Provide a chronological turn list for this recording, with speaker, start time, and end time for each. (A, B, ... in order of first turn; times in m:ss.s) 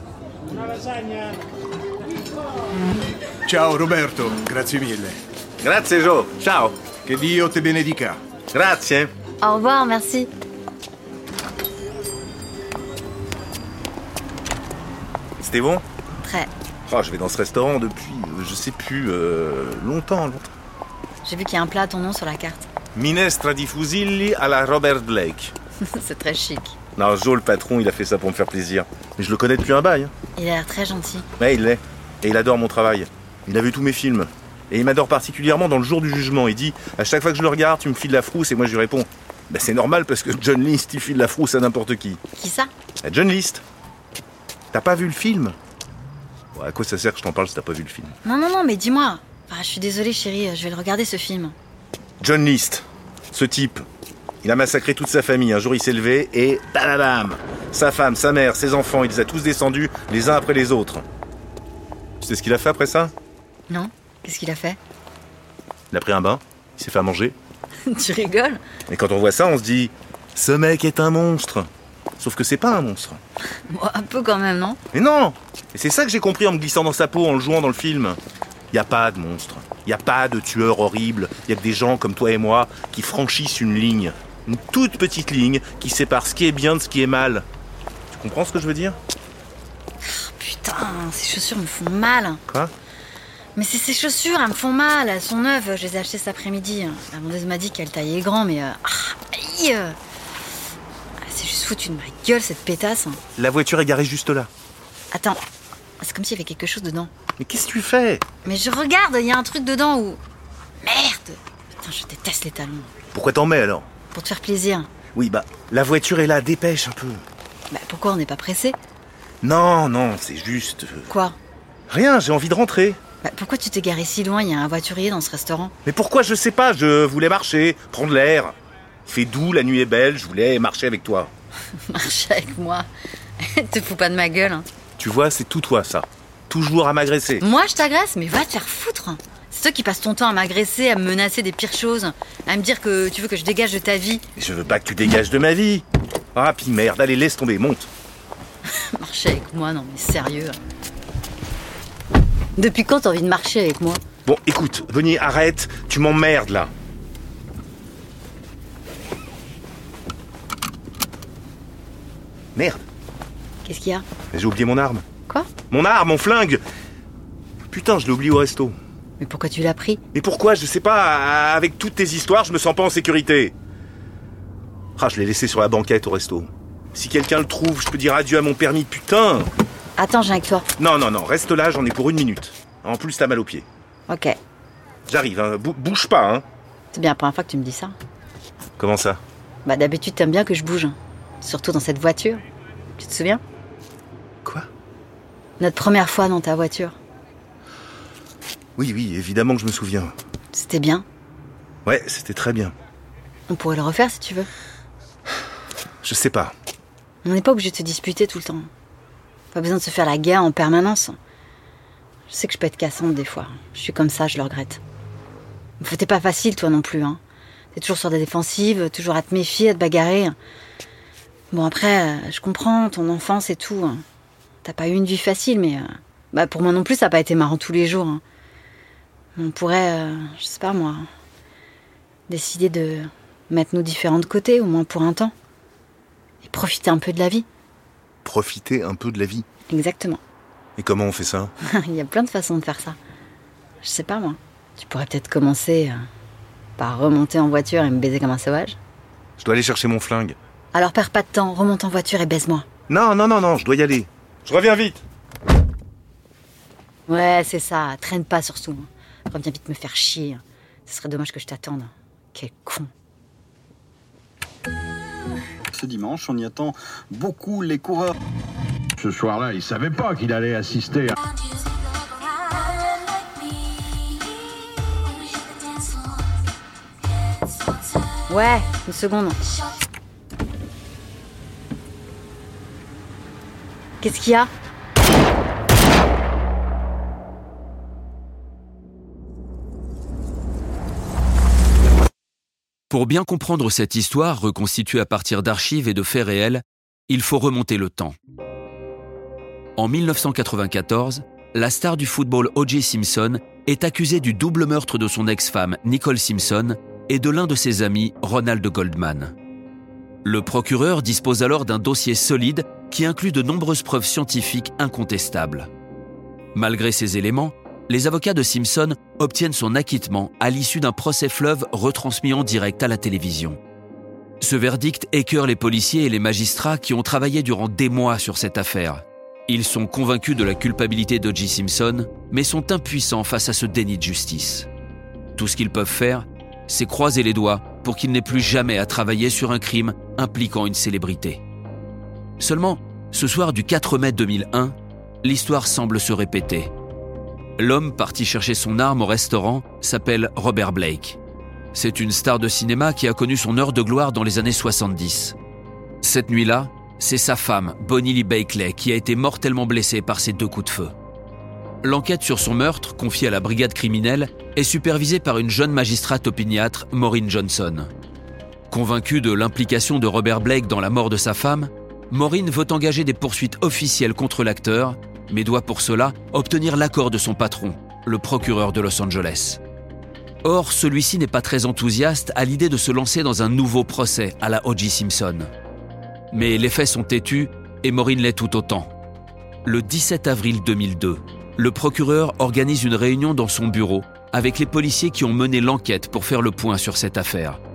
0:03.5-0:05.2 A
0:05.6-0:06.8 B
0:07.1-0:08.2 A
0:08.5-0:09.1 B
0:09.4-0:10.3 C
0:15.4-0:15.8 B
0:16.2-0:16.5 C
0:16.9-0:20.5 B
0:21.2-0:22.7 C
0:23.0-0:25.5 B
0:25.8-0:26.8 C
0:27.0-0:30.1 B
0:30.4-0:31.3 C
0:31.4-0:42.2 B
0:42.4-0:42.7 C
0:43.0-0:43.6 B
0:44.7-0:45.6 B
0:46.6-0:48.2 B
0:48.2-0:51.6 C
0:52.2-0:53.8 B
0:54.4-1:01.0 B
1:02.2-1:03.1 B
1:03.7-1:04.8 C
1:05.9-1:07.4 B
1:07.9-1:08.6 C
1:08.9-1:13.2 B
1:13.7-1:14.8 C
1:14.9-1:18.2 B
1:18.7-1:27.4 B
1:28.1-1:29.0 B
1:30.0-1:32.4 C
1:33.6-1:40.0 C
1:41.2-1:43.2 C
1:43.4-1:44.5 B
1:45.1-1:45.4 C
1:46.0-1:47.1 C
1:47.4-1:48.2 B
1:48.4-1:50.2 C
1:50.8-1:52.9 C
1:53.1-1:53.9 B
1:54.1-1:54.9 C
1:55.1-1:57.2 B
1:57.7-1:58.8 C
1:59.4-2:01.1 B
2:01.1-2:01.4 C
2:01.9-2:03.0 B
2:03.2-2:05.7 C
2:05.9-2:08.5 B
2:09.1-2:11.3 B
2:11.9-2:12.9 C
2:13.4-2:14.7 C
2:15.0-2:17.4 B
2:17.4-2:24.2 C
2:24.4-2:27.9 B
2:28.7-2:30.6 C
2:32.6-2:34.0 C
2:34.2-2:36.7 B
2:42.6-2:42.8 B
2:43.6-2:44.1 C
2:44.3-2:45.0 B
2:45.7-2:46.6 B
2:47.7-2:48.8 B
2:49.2-2:50.0 C
2:50.1-2:53.5 B
2:55.0-2:59.5 B
3:00.0-3:00.7 C
3:00.8-3:03.6 B
3:04.1-3:04.4 C
3:05.1-3:06.4 B
3:06.9-3:08.0 C
3:08.8-3:09.2 B
3:09.6-3:12.4 C
3:13.0-3:13.4 C
3:15.6-3:17.0 C
3:18.8-3:20.1 B
3:20.5-3:21.0 C
3:21.8-3:22.7 B
3:23.5-3:24.5 C
3:26.0-3:26.5 B
3:27.2-3:28.7 C
3:29.5-3:31.2 C
3:32.3-3:34.8 C
3:35.8-3:37.2 C
3:37.7-3:40.4 C
3:41.5-3:44.0 C
3:44.6-3:48.2 C
3:49.4-3:51.1 C
3:52.3-3:55.3 C
3:56.4-3:57.5 C
3:58.2-3:59.5 B
3:59.7-4:00.2 C
4:00.8-4:01.5 B
4:01.6-4:03.0 C
4:03.8-4:06.1 C
4:06.8-4:08.8 C
4:09.4-4:10.4 B
4:10.7-4:12.6 C
4:12.9-4:15.0 B
4:17.1-4:22.9 C
4:25.7-4:28.2 D
4:29.0-4:31.2 E
4:38.3-4:39.5 C
4:44.0-4:44.5 C
4:52.9-4:58.2 F
4:59.8-5:09.3 F
5:10.2-5:15.7 F
5:16.6-5:23.6 F
5:24.4-5:34.7 F
5:35.4-5:41.4 F
5:42.4-5:46.7 F
5:47.6-5:51.2 F
5:51.7-5:55.4 F
5:56.0-6:00.9 F
6:01.8-6:07.9 F
6:08.7-6:19.6 F
6:20.4-6:25.5 F
6:26.3-6:28.9 F
6:29.6-6:37.6 F